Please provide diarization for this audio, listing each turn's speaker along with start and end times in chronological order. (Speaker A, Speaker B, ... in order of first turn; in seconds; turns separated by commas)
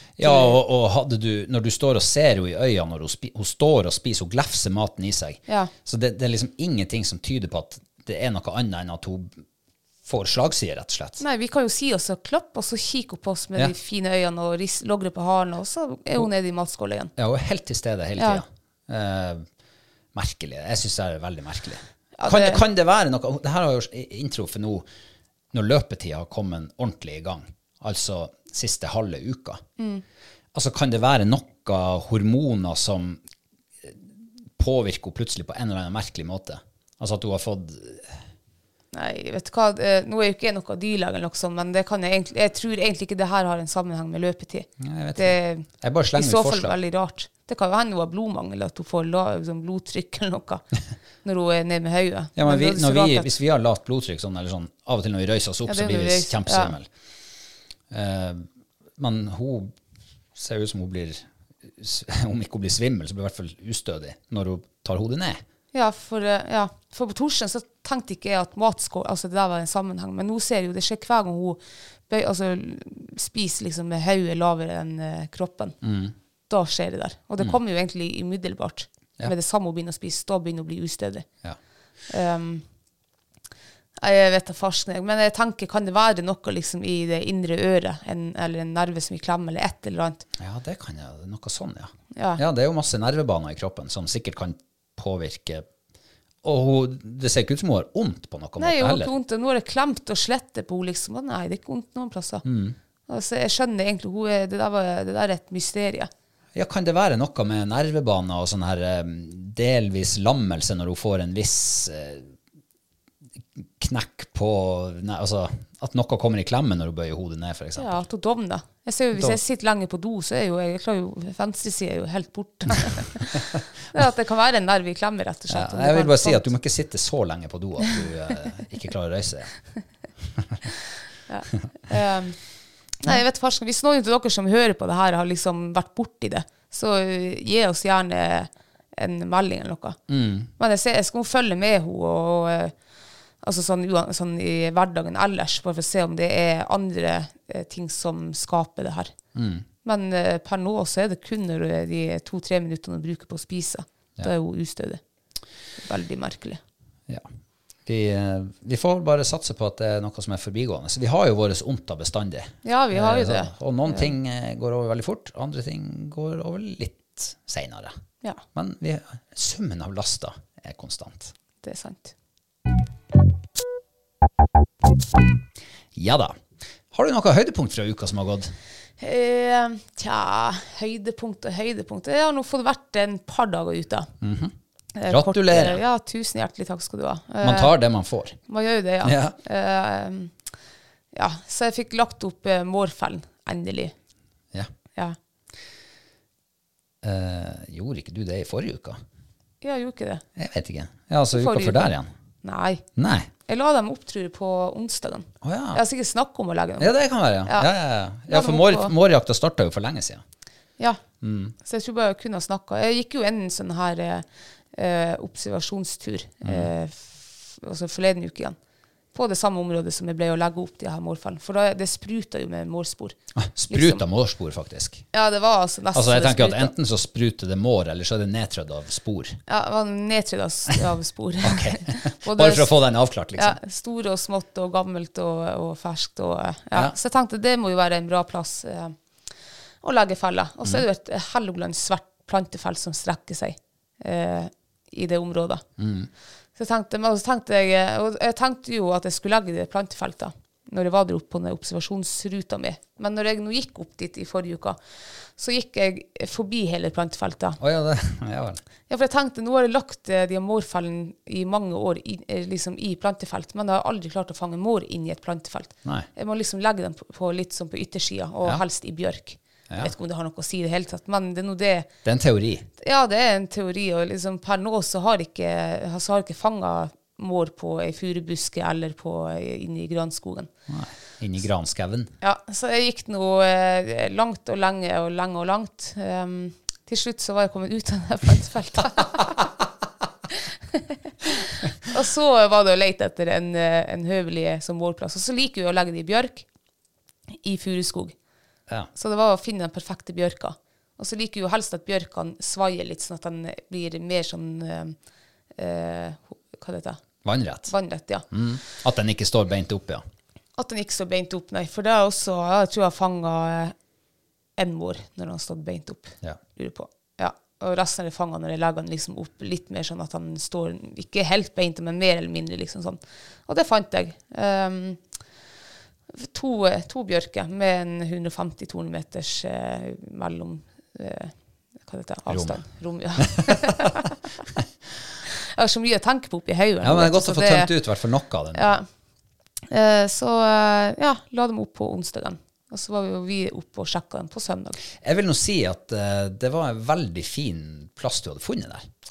Speaker A: 0.2-9.4, Speaker B: 0.2-0.6, Speaker A: 10.0-11.2, Speaker B: 11.2-17.1, Speaker A: 17.2-19.5, Speaker A: 20.1-24.9, Speaker B: 22.2-22.6, Speaker A: 25.5-29.6, Speaker B: 29.8-30.0, Speaker A: 30.5-33.2, Speaker A: 33.8-38.2, Speaker B: 38.9-50.6, Speaker A: 44.8-46.8, Speaker B: 51.2-53.3, Speaker A: 52.4-56.9, Speaker B: 55.7-56.7, Speaker A: 57.9-59.7, Speaker A: 60.3-65.4, Speaker B: 65.7-75.8, Speaker A: 75.8-76.1, Speaker B: 76.5-81.3, Speaker B: 82.1-82.6, Speaker B: 84.0-90.2, Speaker A: 90.4-95.7, Speaker B: 92.1-92.4, Speaker A: 96.4-99.1, Speaker B: 98.6-102.4, Speaker A: 102.4-102.8, Speaker B: 103.1-106.1, Speaker A: 106.5-112.3, Speaker A: 113.6-118.0, Speaker B: 117.8-126.5, Speaker A: 119.1-119.4, Speaker A: 125.5-129.5, Speaker B: 131.3-132.4, Speaker B: 133.0-140.0, Speaker A: 140.1-140.5, Speaker B: 140.6-142.7, Speaker B: 143.4-149.1, Speaker A: 149.3-149.7, Speaker B: 149.8-155.0, Speaker B: 155.8-156.6, Speaker A: 157.8-167.9, Speaker B: 162.6-164.1, Speaker A: 168.5-171.3, Speaker B: 171.6-172.1, Speaker A: 175.9-176.4, Speaker A: 176.9-178.5, Speaker B: 179.0-184.1, Speaker A: 184.2-184.5, Speaker B: 184.9-187.7, Speaker A: 185.1-185.8, Speaker A: 187.4-188.4, Speaker B: 188.5-190.3, Speaker A: 189.0-189.3, Speaker B: 191.1-193.9, Speaker A: 197.0-199.0, Speaker B: 199.6-200.2, Speaker A: 200.3-202.1, Speaker B: 201.3-201.9, Speaker B: 202.4-202.8, Speaker A: 202.9-203.3, Speaker B: 203.5-206.9, Speaker A: 205.4-205.8, Speaker A: 206.8-210.2, Speaker B: 208.3-208.9, Speaker A: 211.2-211.5, Speaker B: 211.6-218.6, Speaker A: 216.4-216.7, Speaker B: 219.1-223.2, Speaker A: 223.3-225.1, Speaker B: 223.7-224.0, Speaker B: 225.1-226.7, Speaker A: 225.9-229.4, Speaker B: 229.5-232.7, Speaker A: 231.4-233.6, Speaker B: 233.4-238.9, Speaker B: 239.8-245.6, Speaker A: 245.8-246.1, Speaker B: 246.6-254.8, Speaker B: 255.3-257.6, Speaker A: 257.6-258.6, Speaker B: 258.9-271.9, Speaker A: 272.0-272.7, Speaker B: 272.8-280.5, Speaker A: 280.7-282.1, Speaker B: 282.2-289.4, Speaker B: 290.3-296.4, Speaker B: 297.4-298.1, Speaker B: 298.9-304.9, Speaker B: 305.6-307.0, Speaker A: 307.2-307.7, Speaker B: 307.7-308.2, Speaker A: 308.3-310.0, Speaker B: 310.6-313.7, Speaker B: 314.6-325.0, Speaker B: 326.1-334.1, Speaker A: 332.3-332.6, Speaker A: 333.4-333.7, Speaker B: 335.5-337.7, Speaker A: 336.8-338.7, Speaker B: 338.5-338.9, Speaker B: 339.7-344.8, Speaker A: 345.0-348.9